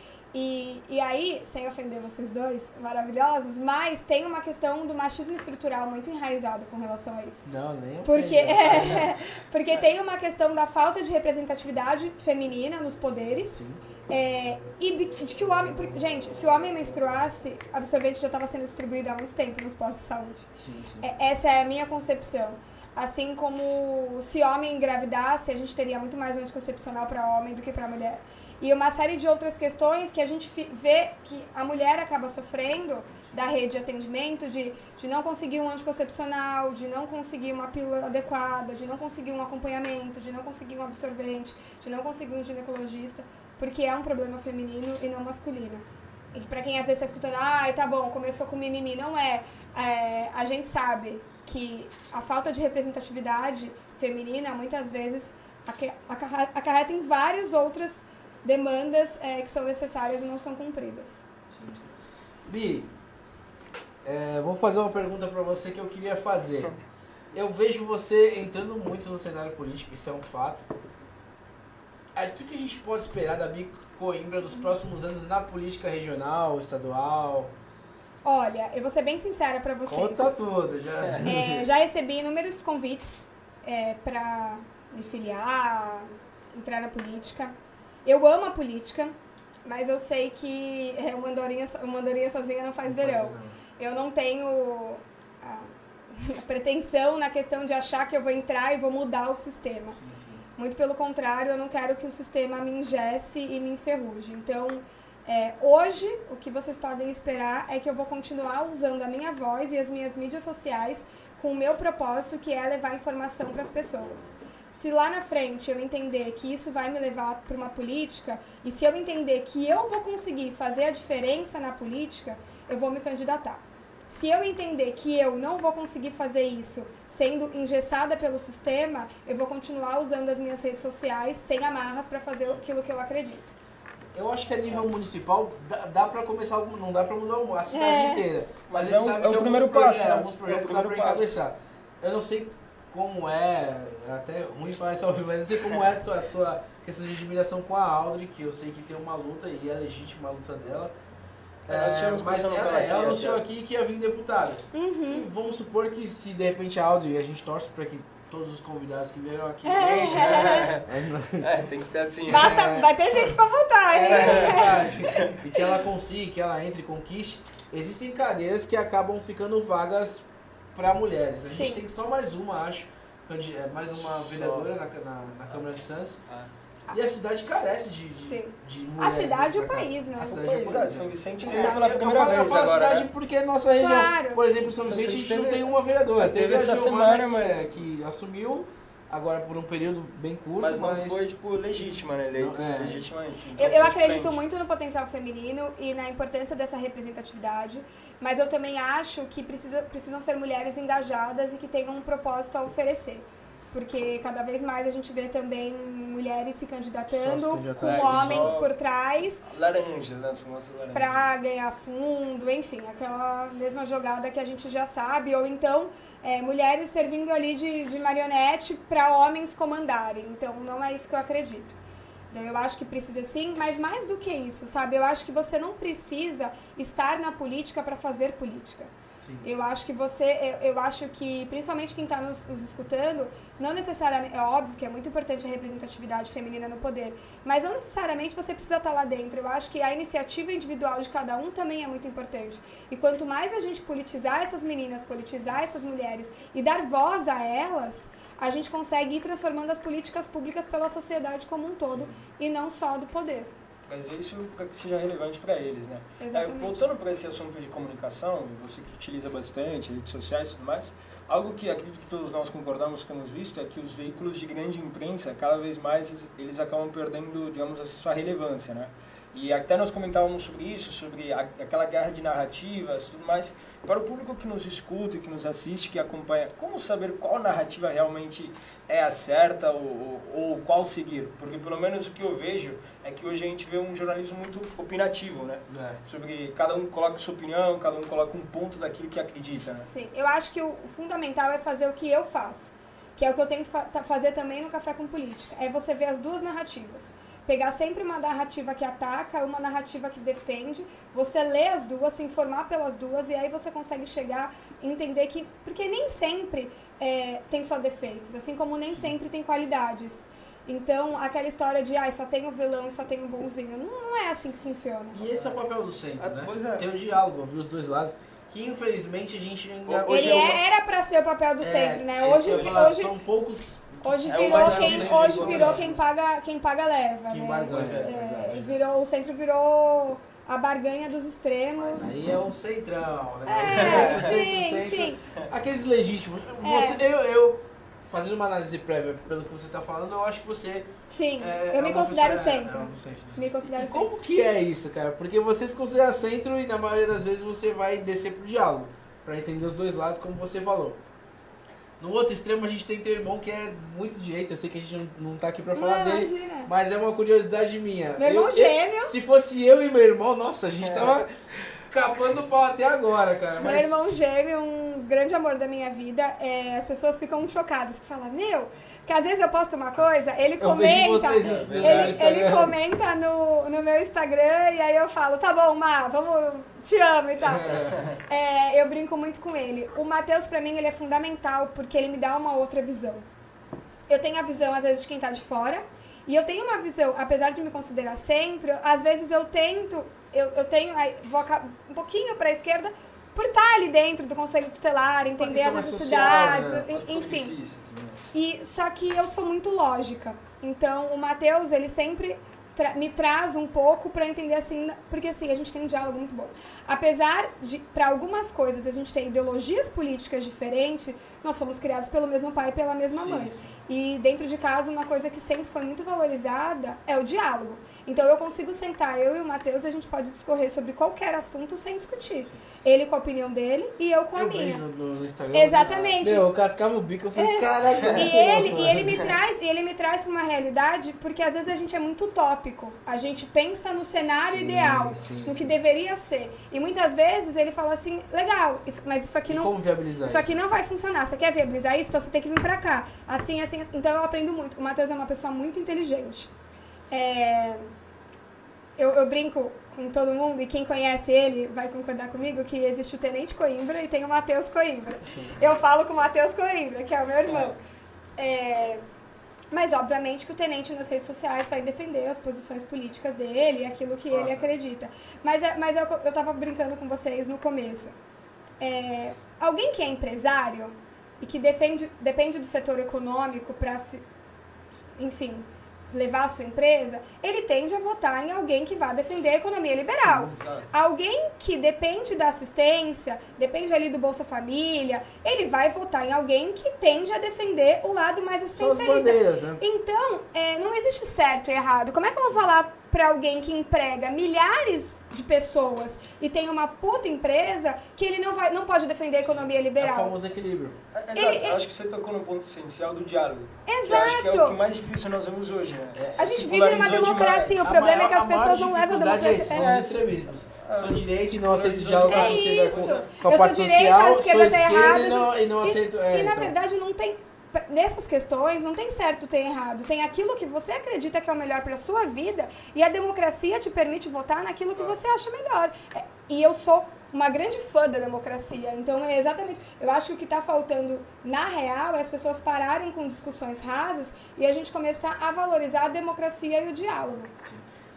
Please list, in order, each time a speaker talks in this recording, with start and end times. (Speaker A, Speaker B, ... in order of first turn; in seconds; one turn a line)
Speaker A: 0.3-7.5
Speaker B: 7.5-9.2
Speaker A: 8.1-20.5
Speaker B: 13.5-13.8
Speaker B: 20.6-21.1
Speaker A: 21.0-61.2
Speaker B: 61.5-61.8
Speaker B: 62.5-62.9
Speaker B: 64.0-66.7
Speaker B: 67.3-70.7
Speaker B: 72.2-77.5
Speaker A: 78.2-80.3
Speaker B: 79.8-81.7
Speaker A: 81.2-87.5
Speaker A: 88.0-100.0
Speaker B: 92.9-93.6
Speaker B: 100.0-100.5
Speaker A: 100.6-133.6
Speaker B: 134.1-150.9
Speaker A: 137.7-138.2
Speaker C: 138.7-141.3
Speaker B: 151.7-161.5
Speaker C: 151.7-153.4
Speaker A: 154.7-155.3
Speaker A: 159.6-160.7
Speaker C: 160.1-160.9
Speaker C: 161.4-162.6
Speaker B: 162.3-163.3
Speaker A: 162.3-165.0
Speaker B: 163.9-176.2
Speaker C: 164.1-165.3
Speaker A: 171.5-171.8
Speaker C: 174.1-174.7
Speaker B: 176.9-191.2
Speaker A: 178.2-180.4
Speaker C: 180.3-183.1
Speaker A: 181.4-181.8
Speaker A: 183.8-184.4
Speaker C: 184.8-187.7
Speaker C: 190.6-194.4
Speaker B: 192.3-193.1
Speaker A: 193.6-209.4
Speaker B: 207.1-208.6
Speaker C: 207.8-208.7
Speaker C: 209.4-211.3
Speaker A: 210.9-221.8
Speaker A: 222.3-228.9
Speaker B: 229.2-229.5
Speaker A: 229.4-253.5
Speaker B: 251.9-252.2
Speaker C: 253.9-289.9
Speaker A: 256.2-256.8
Speaker B: 285.7-286.0
Speaker A: 289.9-315.3
Speaker B: 315.1-320.6
Speaker C: 316.2-316.9
Speaker C: 319.9-320.5
Speaker A: 320.1-323.1
Speaker B: 321.6-326.0
Speaker C: 322.5-322.9
Speaker A: 324.0-332.2
Speaker C: 324.3-326.0
Speaker B: 327.3-328.9
Speaker C: 327.7-328.1
Speaker B: 331.9-351.0
Speaker A: 333.5-335.2
Speaker C: 333.7-334.4
Speaker A: 336.6-337.0
Speaker A: 341.1-344.1
Speaker B: 352.0-363.9
Speaker A: 355.7-356.7
Speaker A: 358.2-359.1
Speaker C: 360.9-361.2
Speaker A: 363.6-383.2
Speaker B: 370.6-372.8
Speaker C: 371.4-372.2
Speaker B: 377.4-377.9
Speaker A: 384.1-397.5
Speaker B: 395.4-396.9
Speaker C: 396.9-397.8
Speaker B: 397.9-398.2
Speaker A: 398.3-424.8
Speaker B: 413.1-413.8
Speaker B: 424.4-429.3
Speaker A: 425.5-426.5
Speaker A: 427.4-439.7
Speaker B: 434.5-435.8
Speaker B: 439.5-440.6
Speaker A: 440.2-446.5
Speaker A: 447.1-447.9
Speaker A: 449.0-457.8
Speaker B: 455.3-455.6
Speaker C: 457.5-457.7
Speaker A: 458.4-459.0
Speaker A: 459.7-468.1
Speaker C: 464.3-464.6
Speaker A: 468.8-474.2
Speaker A: 475.1-500.3
Speaker B: 480.2-480.5
Speaker C: 480.5-480.9
Speaker B: 488.7-489.8
Speaker B: 500.0-501.0
Speaker C: 501.1-507.8
Speaker A: 501.3-501.8
Speaker A: 503.9-504.8
Speaker B: 506.1-506.5
Speaker A: 506.4-510.1
Speaker B: 507.8-516.8
Speaker C: 509.7-513.2
Speaker A: 512.3-537.5